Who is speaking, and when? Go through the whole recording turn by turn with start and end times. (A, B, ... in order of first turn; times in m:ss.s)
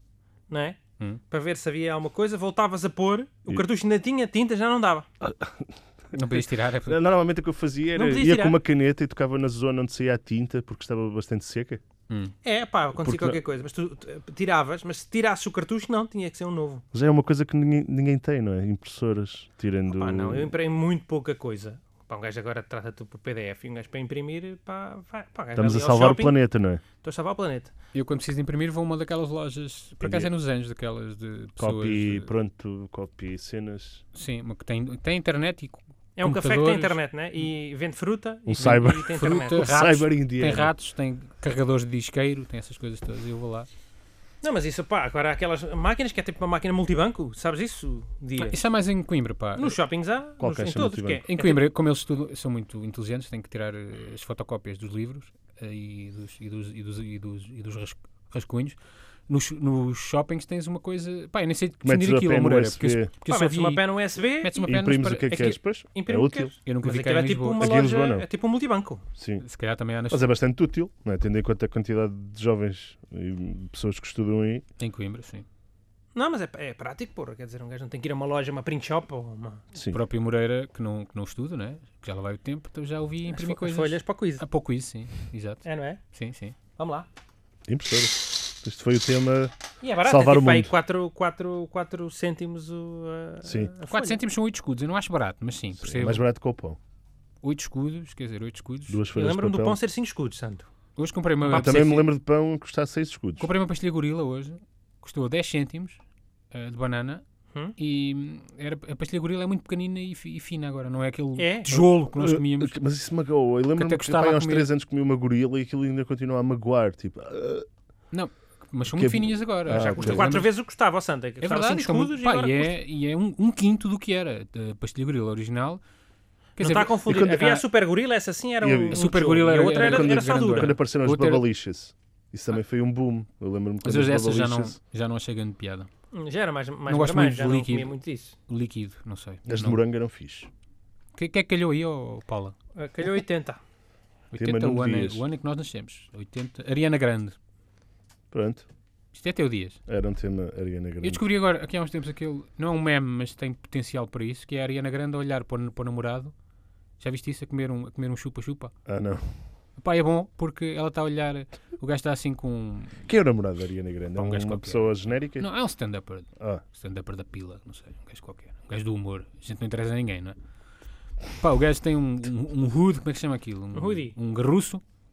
0:00.5-0:05.1 A
0:05.2-0:11.8 B
0:06.1-0:07.0 C
0:08.0-0:08.6 A
0:12.1-0:12.4 C
0:12.4-0:16.8 A
0:13.0-0:13.4 B
0:16.9-0:20.5 B
0:19.9-0:26.4 A
0:25.6-0:26.8 B
0:26.9-0:27.7 A
0:27.9-0:32.3 C
0:30.0-0:30.3 B
0:31.6-0:34.0 B
0:34.1-0:37.0 C
0:36.2-0:39.6 A
0:38.5-0:40.7 B
0:38.8-0:43.7 C
0:44.4-0:48.6 A
0:48.4-0:49.8 C
0:49.6-0:51.6 A
0:50.4-0:51.2 B
0:51.3-1:05.5 C
1:01.8-1:03.1 B
1:03.3-1:09.0 A
1:04.6-1:06.5 B
1:06.6-1:07.7 C
1:07.6-1:08.2 B
1:09.2-1:09.4 B
1:09.4-1:10.3 C
1:10.1-1:14.6 B
1:14.8-1:15.5 C
1:16.2-1:19.6 A
1:19.7-1:20.0 B
1:19.9-1:26.6 C
1:23.3-1:24.4 A
1:25.6-1:26.0 A
1:26.8-1:27.1 A
1:27.7-1:30.7 B
1:29.8-1:34.2 A
1:33.4-1:33.7 B
1:33.9-1:36.2 C
1:35.8-1:36.8 B
1:37.4-1:39.0 C
1:38.9-1:39.8 B
1:39.1-1:40.7 A
1:41.0-1:42.1 C
1:41.4-1:43.5 B
1:43.4-1:46.0 C
1:46.5-1:47.2 C
1:47.8-1:52.8 C
1:51.4-1:51.8 A
1:51.7-1:57.7 B
1:53.8-1:54.7 C
1:58.1-2:00.5 C
1:58.9-2:00.3 B
1:59.9-2:02.7 A
2:01.4-2:05.8 C
2:06.6-2:07.6 C
2:06.6-2:10.8 A
2:07.1-2:07.6 B
2:08.6-2:09.2 B
2:08.9-2:11.5 C
2:09.8-2:14.8 B
2:13.8-2:15.9 C
2:16.1-2:18.4 A
2:16.9-2:17.9 C
2:18.5-2:19.8 C
2:19.5-2:20.5 B
2:21.2-2:22.6 C
2:22.8-2:23.6 A
2:24.3-2:27.4 C
2:24.4-2:25.2 B
2:28.3-2:28.7 B
2:29.1-2:29.8 C
2:29.9-2:31.2 B
2:31.0-2:36.3 C
2:37.0-2:38.7 C
2:38.9-2:39.4 B
2:39.8-2:43.0 C
2:43.1-2:45.5 B
2:44.2-2:50.4 C
2:51.4-2:54.8 C
2:53.7-2:54.1 A